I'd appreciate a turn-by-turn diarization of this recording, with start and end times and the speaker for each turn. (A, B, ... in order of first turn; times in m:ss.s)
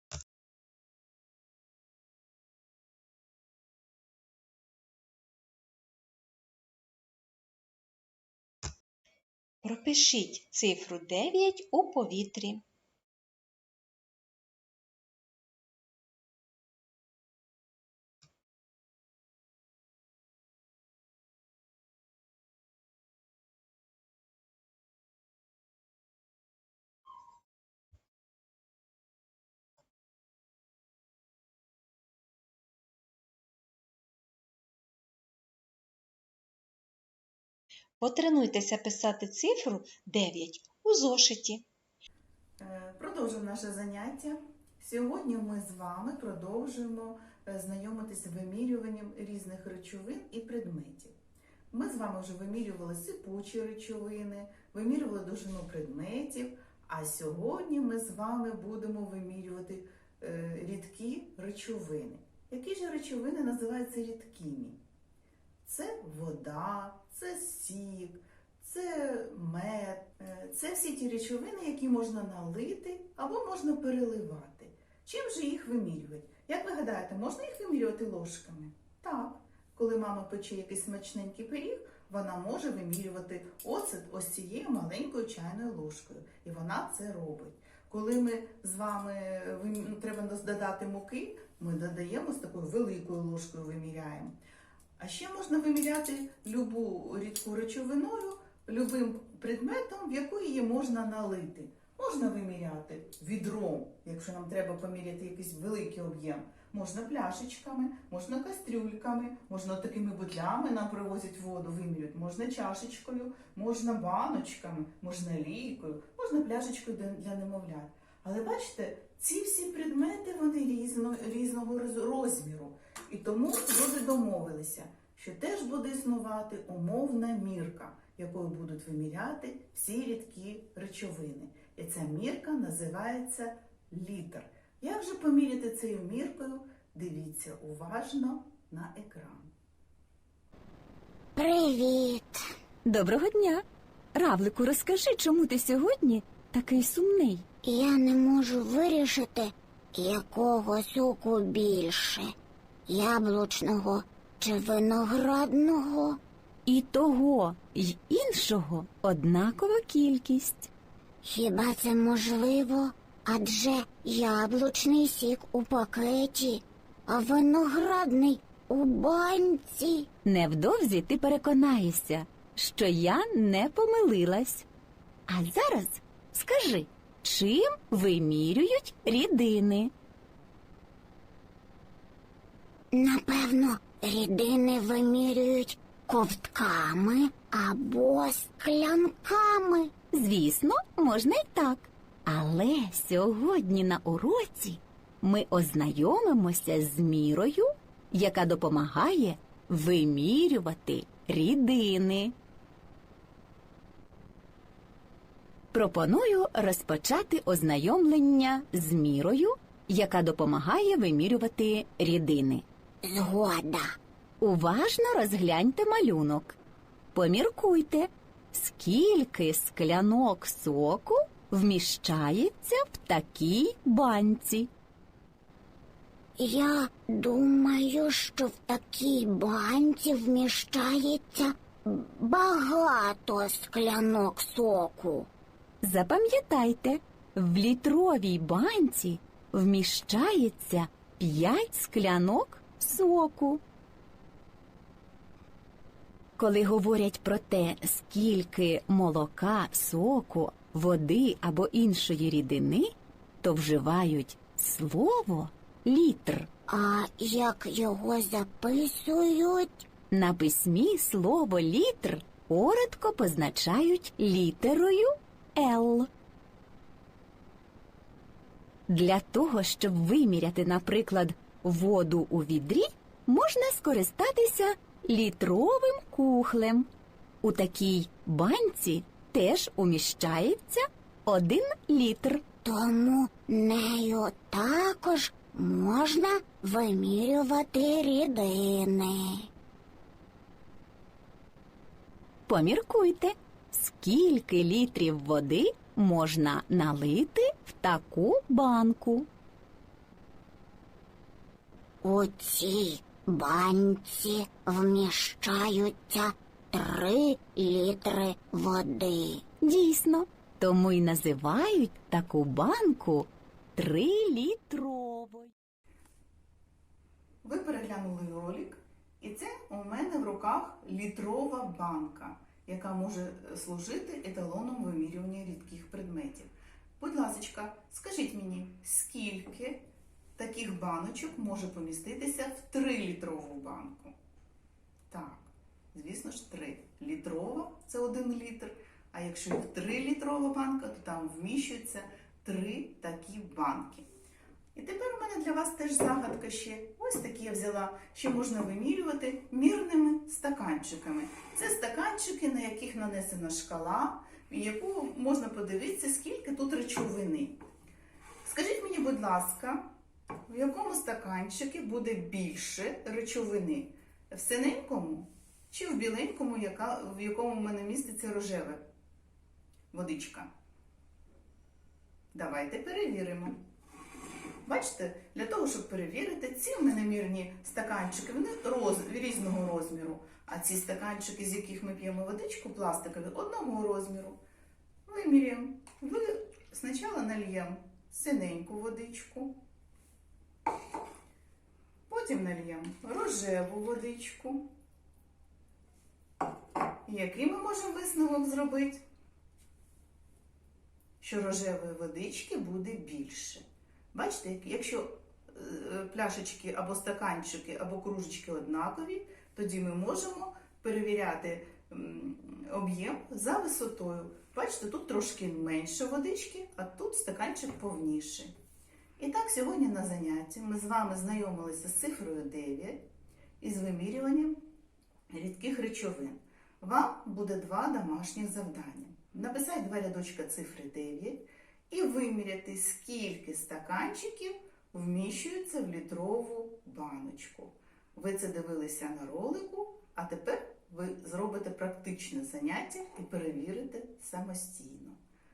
0:09.6-0:12.6 A
0:38.0-0:41.6 A
0:42.6-0:51.1 B
0:51.7-1:04.8 B
1:05.6-1:34.3 B
1:35.0-2:19.5 B
2:21.4-2:22.4 C
2:22.8-2:27.5 D
2:27.6-2:32.3 C
2:32.9-2:36.2 C
2:36.7-2:40.7 D
2:41.2-2:50.1 C
2:50.2-2:54.7 D
2:55.3-2:59.9 D
3:02.9-3:09.9 C
3:10.1-3:22.4 D
3:25.7-3:32.6 D
3:33.0-3:33.8 C
3:34.4-3:36.6 D
3:37.1-3:44.7 D
3:46.4-3:55.3 C
3:55.8-4:03.6 D
4:06.4-4:12.9 D
4:13.4-4:16.5 D
4:16.7-4:19.8 C
4:20.1-4:26.1 D
4:28.9-4:36.9 D
4:37.4-4:42.4 D
4:42.6-4:49.5 C
4:52.5-4:59.3 D
5:02.0-5:09.4 C
5:09.6-5:15.5 D
5:17.4-5:29.8 B
5:30.4-5:34.1 B
5:35.1-5:44.1 B
5:44.8-5:57.5 B
5:58.4-5:59.8 B
6:00.5-6:08.8 B
6:09.9-6:10.5 B
6:12.3-6:13.6 B
6:14.6-6:24.4 B
6:25.1-6:29.5 B
6:32.1-6:34.6 B
6:37.1-6:39.0 B
6:41.2-6:58.5 B
6:59.2-7:03.0 B
7:03.6-7:04.6 B
7:05.3-7:25.2 B